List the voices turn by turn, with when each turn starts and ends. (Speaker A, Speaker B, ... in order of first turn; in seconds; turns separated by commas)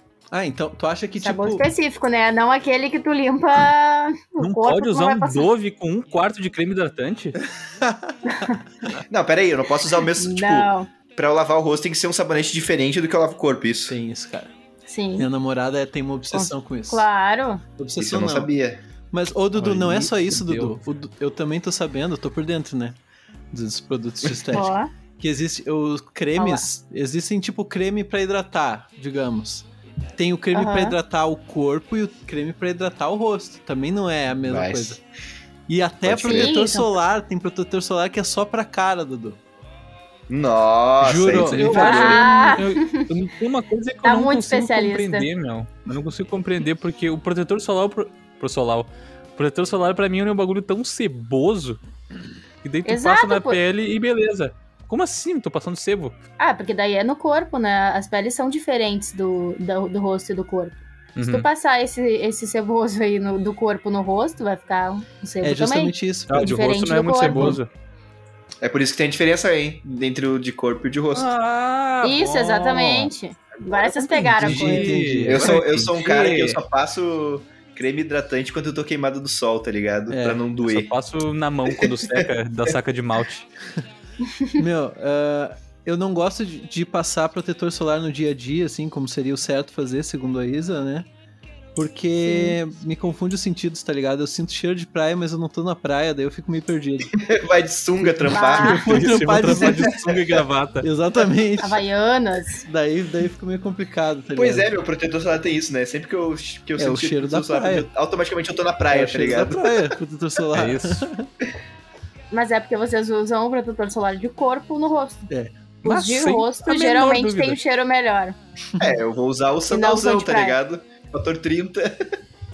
Speaker A: 0.3-1.7, Speaker B: 1.2-5.5, Speaker C: 4.4-7.4, Speaker A: 7.7-8.2, Speaker B: 8.3-8.6, Speaker D: 9.1-14.0, Speaker B: 10.2-10.9, Speaker A: 13.9-14.5, Speaker B: 14.9-15.3, Speaker A: 15.2-17.1, Speaker B: 16.3-17.6, Speaker A: 17.8-18.5, Speaker D: 18.0-18.8, Speaker A: 19.1-23.0, Speaker C: 19.6-20.8, Speaker A: 23.5-35.0, Speaker B: 24.5-24.9, Speaker B: 26.4-26.7, Speaker B: 30.5-31.0, Speaker D: 34.5-35.0, Speaker A: 35.7-39.4, Speaker D: 36.0-36.5, Speaker B: 36.2-37.0, Speaker D: 40.3-42.1, Speaker A: 41.0-42.6, Speaker C: 41.2-51.8, Speaker B: 41.6-43.1, Speaker B: 44.0-45.3, Speaker C: 52.6-56.2, Speaker B: 52.9-53.6, Speaker B: 56.4-67.6, Speaker C: 61.2-61.5, Speaker A: 65.4-66.7, Speaker C: 66.3-67.7, Speaker A: 67.2-67.6, Speaker D: 68.6-71.3, Speaker C: 71.1-73.1, Speaker B: 72.0-75.0, Speaker A: 74.0-75.8, Speaker C: 74.4-76.6, Speaker D: 75.3-80.9, Speaker A: 80.1-80.4, Speaker C: 80.6-83.5, Speaker D: 81.7-82.3, Speaker A: 84.6-91.1, Speaker A: 91.8-97.2, Speaker B: 92.2-92.6, Speaker D: 97.1-100.4, Speaker A: 98.0-100.0, Speaker B: 98.3-98.9, Speaker C: 98.9-100.9, Speaker A: 100.8-101.8, Speaker B: 101.6-102.7, Speaker A: 102.6-104.7, Speaker D: 104.4-110.0, Speaker A: 106.8-107.9, Speaker A: 108.9-111.3, Speaker C: 110.5-111.1, Speaker B: 112.3-115.3, Speaker B: 115.8-118.4, Speaker C: 115.8-117.6, Speaker D: 118.8-122.1, Speaker B: 119.7-120.6